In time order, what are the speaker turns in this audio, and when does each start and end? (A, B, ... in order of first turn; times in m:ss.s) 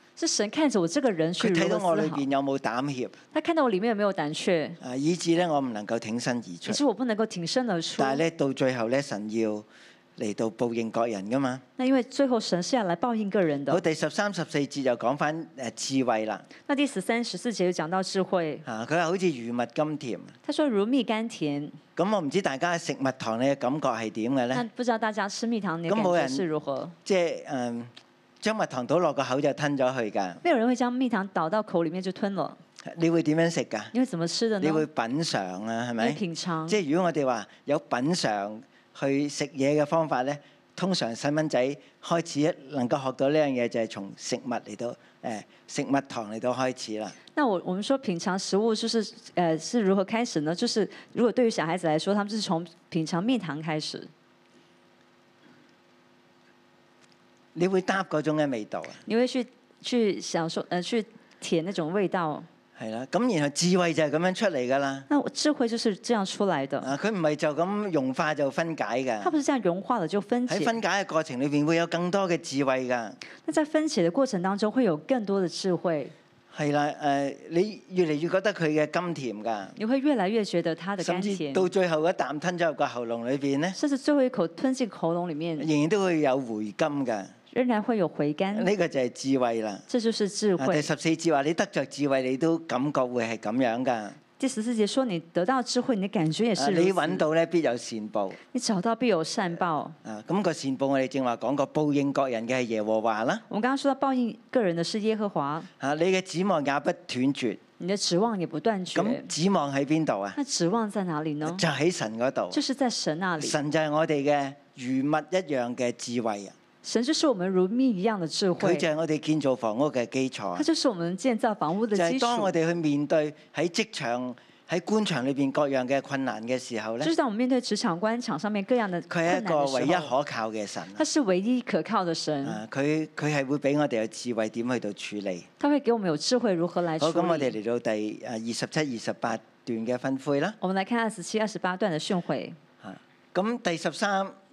0:00.2-0:02.2 A
0:01.4-0:03.2 B
0:03.3-0:04.8 A
0:04.8-0:06.8 B
0:06.6-0:08.2 A
0:08.0-0:09.6 B
0:10.2-0:11.6 B
0:11.8-0:13.8 A
0:13.7-0:16.5 B
0:16.6-0:18.6 A
0:18.6-0:20.3 B
0:20.4-0:21.8 A
0:22.0-0:24.6 B
0:24.5-0:26.9 A
0:25.9-0:26.4 B
0:27.0-0:30.4 B
0:30.4-0:32.6 A
0:32.8-0:33.9 B
0:33.9-0:34.8 A
0:34.6-0:47.2 B
0:36.0-0:36.8 A
0:47.3-0:54.1 A
0:57.5-0:59.0 B
0:59.0-1:02.5 A
1:02.8-1:05.1 B
1:05.1-1:06.9 A
1:06.8-1:09.4 B
1:09.2-1:10.7 A
1:10.5-1:13.2 B
1:13.4-1:16.1 A
1:16.5-1:19.8 B
1:19.8-1:21.7 A
1:21.0-1:23.8 B
1:23.8-1:25.7 A
1:25.6-1:27.3 B
1:27.5-1:28.7 A
1:28.5-1:29.8 B
1:29.9-1:30.9 A
1:30.6-1:34.2 B
1:34.4-1:37.2 A
1:36.6-1:38.4 B
1:38.5-1:40.0 A
1:40.0-1:43.4 B
1:43.5-1:45.7 A
1:45.8-1:47.6 B
1:47.8-1:49.3 A
1:48.9-1:50.4 B
1:50.4-1:51.6 A
1:51.4-1:52.6 B
1:52.5-1:53.6 A
1:53.4-1:56.5 B
1:56.8-1:58.8 A
1:58.6-2:00.6 B
2:00.6-2:02.5 A
2:01.9-2:07.1 B
2:07.0-2:10.1 A
2:09.1-2:11.0 B
2:11.0-2:12.6 A
2:12.4-2:15.5 B
2:15.6-2:17.5 A
2:17.0-2:20.6 B
2:20.6-2:22.6 A
2:22.8-2:24.4 B